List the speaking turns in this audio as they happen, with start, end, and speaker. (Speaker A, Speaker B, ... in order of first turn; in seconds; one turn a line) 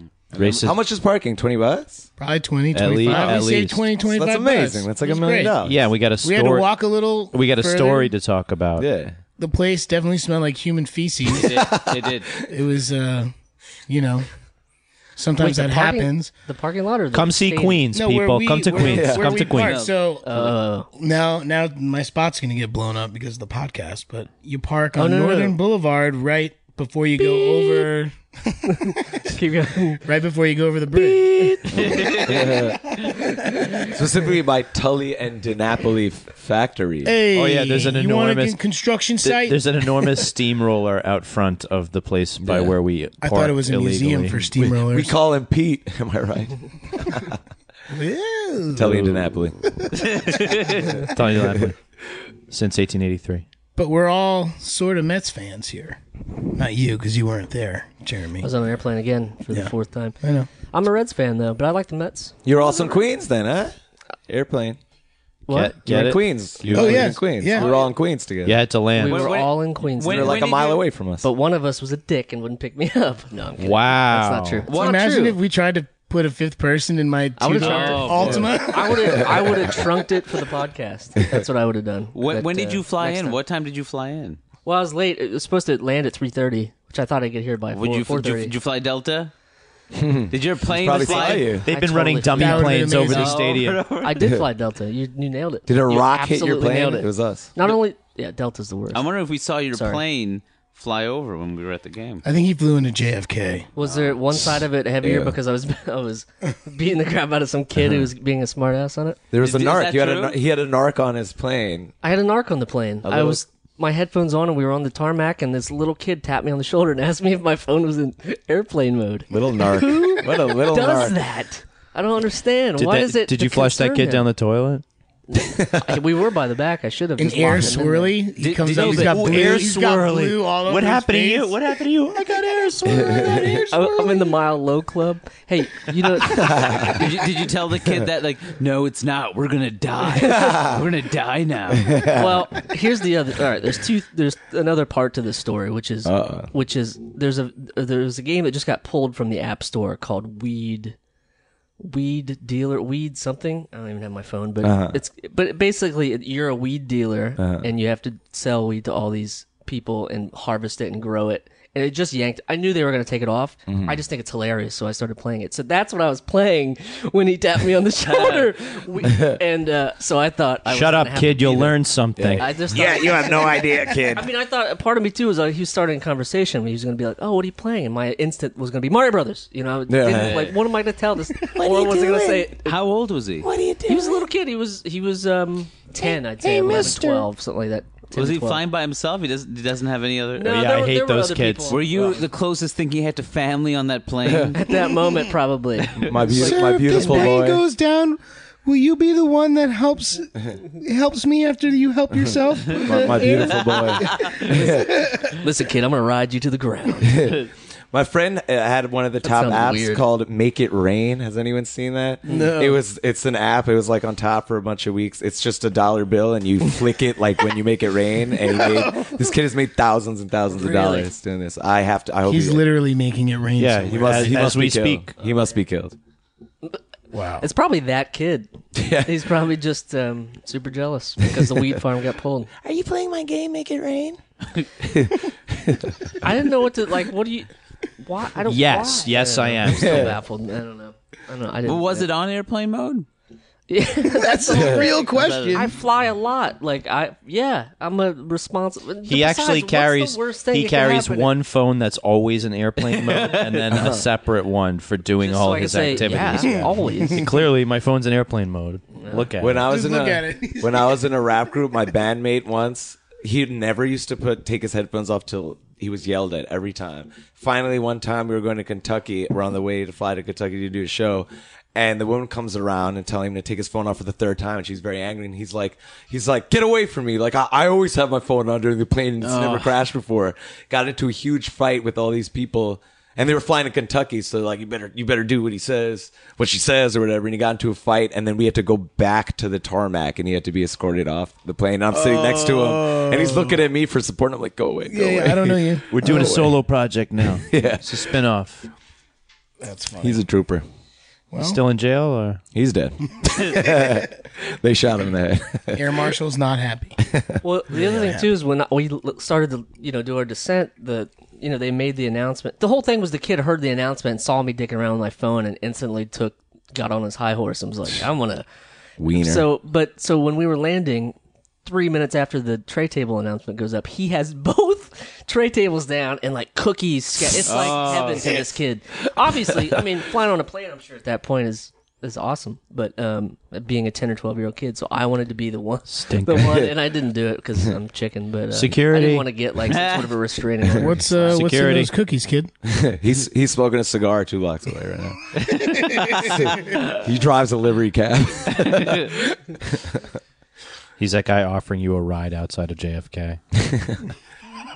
Speaker A: 0.3-0.7
Speaker B: 0.4-0.8
Speaker C: 0.4-2.1
Speaker D: 2.2-5.5
Speaker B: 2.7-3.8
Speaker A: 3.0-3.4
Speaker C: 4.0-5.8
Speaker B: 5.6-6.7
Speaker D: 6.2-8.1
Speaker B: 7.3-8.9
Speaker C: 8.8-9.2
Speaker D: 9.4-11.6
Speaker A: 11.3-12.3
Speaker C: 11.5-12.4
Speaker D: 12.5-13.3
Speaker D: 13.9-14.3
Speaker D: 15.2-16.3
Speaker E: 15.4-17.8
Speaker B: 17.1-19.9
Speaker D: 17.9-20.2
Speaker C: 18.8-19.5
Speaker A: 19.5-20.5
Speaker E: 20.2-20.9
Speaker D: 20.9-29.2
Speaker E: 24.9-25.6
Speaker E: 27.2-27.9
Speaker E: 28.7-30.0
Speaker D: 30.0-31.5
Speaker B: 30.9-31.9
Speaker A: 31.7-32.6
Speaker C: 31.7-32.8
Speaker D: 32.9-33.9
Speaker C: 33.8-37.2
Speaker D: 37.0-40.1
Speaker B: 37.3-38.6
Speaker B: 39.2-44.5
Speaker C: 42.4-42.7
Speaker D: 43.2-45.1
Speaker C: 44.6-47.4
Speaker D: 47.9-49.1
Speaker C: 48.8-49.6
Speaker B: 48.8-49.2
Speaker A: 50.0-50.9
Speaker B: 50.9-51.8
Speaker B: 52.5-53.4
Speaker D: 53.8-56.0
Speaker D: 56.5-58.5
Speaker E: 58.4-62.3
Speaker D: 59.5-60.5
Speaker C: 62.4-63.7
Speaker C: 64.3-64.8
Speaker E: 65.5-65.7
Speaker B: 65.5-67.2
Speaker C: 65.8-68.6
Speaker D: 66.7-67.7
Speaker A: 67.5-67.9
Speaker B: 68.4-69.3
Speaker E: 69.0-70.4
Speaker A: 69.0-70.8
Speaker C: 70.1-71.3
Speaker E: 71.2-75.4
Speaker B: 73.6-74.7
Speaker A: 74.7-75.0
Speaker D: 74.7-79.5
Speaker E: 77.4-83.4
Speaker A: 77.6-78.5
Speaker A: 82.1-84.4
Speaker E: 84.6-88.5
Speaker A: 87.7-89.3
Speaker C: 89.9-91.7
Speaker A: 90.3-91.6
Speaker E: 91.0-93.1
Speaker B: 91.7-93.8
Speaker D: 92.3-93.4
Speaker A: 93.1-94.3
Speaker E: 94.0-99.0
Speaker C: 95.7-97.5
Speaker A: 98.9-102.2
Speaker E: 99.7-100.0
Speaker D: 102.2-103.7
Speaker E: 103.8-109.2
Speaker C: 104.3-105.3
Speaker C: 109.3-111.9
Speaker A: 109.4-110.3
Speaker E: 112.0-124.3
Speaker C: 113.0-113.4
Speaker C: 119.3-121.2
Speaker B: 122.8-124.8
Speaker E: 125.3-128.2
Speaker D: 127.2-131.6
Speaker A: 128.4-129.6
Speaker B: 128.7-133.4
Speaker D: 132.1-134.3
Speaker C: 132.9-133.6
Speaker E: 133.7-136.9
Speaker C: 136.3-137.1
Speaker A: 136.8-142.0
Speaker C: 140.4-140.8
Speaker C: 141.7-142.5
Speaker E: 142.1-150.9
Speaker C: 146.0-146.5
Speaker E: 151.8-171.8
Speaker C: 154.6-155.0
Speaker C: 157.4-157.7
Speaker C: 163.7-164.0
Speaker A: 168.0-168.5
Speaker B: 170.7-172.5
Speaker C: 172.2-174.3
Speaker E: 172.4-182.8
Speaker C: 179.9-180.5
Speaker A: 180.1-180.5
Speaker C: 181.4-182.5
Speaker A: 182.6-183.5
Speaker C: 183.4-184.3
Speaker E: 183.9-188.6
Speaker B: 186.4-187.3
Speaker A: 188.1-190.6
Speaker E: 190.4-192.2
Speaker B: 190.4-191.8
Speaker A: 191.7-194.6
Speaker C: 194.2-194.5
Speaker E: 194.5-197.4
Speaker C: 196.0-197.6
Speaker D: 196.3-205.3
Speaker C: 202.8-205.0
Speaker A: 203.9-204.4
Speaker E: 205.3-207.3
Speaker C: 207.1-222.6
Speaker E: 209.2-210.0
Speaker E: 212.3-212.5
Speaker D: 212.3-212.8
Speaker E: 220.5-221.1
Speaker D: 222.2-224.3
Speaker B: 223.6-225.1
Speaker C: 223.8-225.9
Speaker D: 227.1-227.4
Speaker E: 227.4-232.5
Speaker C: 228.7-229.2
Speaker C: 232.6-234.2
Speaker C: 234.8-236.1
Speaker E: 236.2-242.1
Speaker B: 238.4-240.2
Speaker C: 239.8-240.1
Speaker A: 241.7-243.1
Speaker E: 243.7-251.3
Speaker D: 244.1-245.7
Speaker C: 244.5-244.8
Speaker A: 244.8-245.7
Speaker B: 249.0-259.7
Speaker A: 252.8-253.7
Speaker C: 253.7-254.1
Speaker E: 255.2-257.2
Speaker C: 256.4-256.6
Speaker E: 259.0-259.3
Speaker C: 259.4-296.5
Speaker D: 259.6-261.1
Speaker A: 279.2-279.7
Speaker D: 291.9-293.6
Speaker D: 294.9-296.4
Speaker B: 295.9-298.7
Speaker C: 297.4-297.9
Speaker D: 299.6-300.2
Speaker C: 300.0-300.6
Speaker D: 301.3-301.6
Speaker B: 301.4-302.4
Speaker C: 302.5-306.0
Speaker D: 305.7-306.9
Speaker C: 307.1-307.4
Speaker E: 307.4-318.4
Speaker D: 307.7-308.3
Speaker C: 319.0-319.5
Speaker E: 319.2-341.4
Speaker A: 327.4-328.4
Speaker C: 327.9-328.5
Speaker B: 335.9-336.7
Speaker C: 336.4-336.7
Speaker B: 338.5-339.3
Speaker A: 339.7-340.1
Speaker D: 340.8-342.5
Speaker B: 341.1-341.9
Speaker C: 342.6-345.2
Speaker A: 345.4-347.0
Speaker C: 346.1-350.0
Speaker A: 348.5-349.1
Speaker B: 351.0-353.4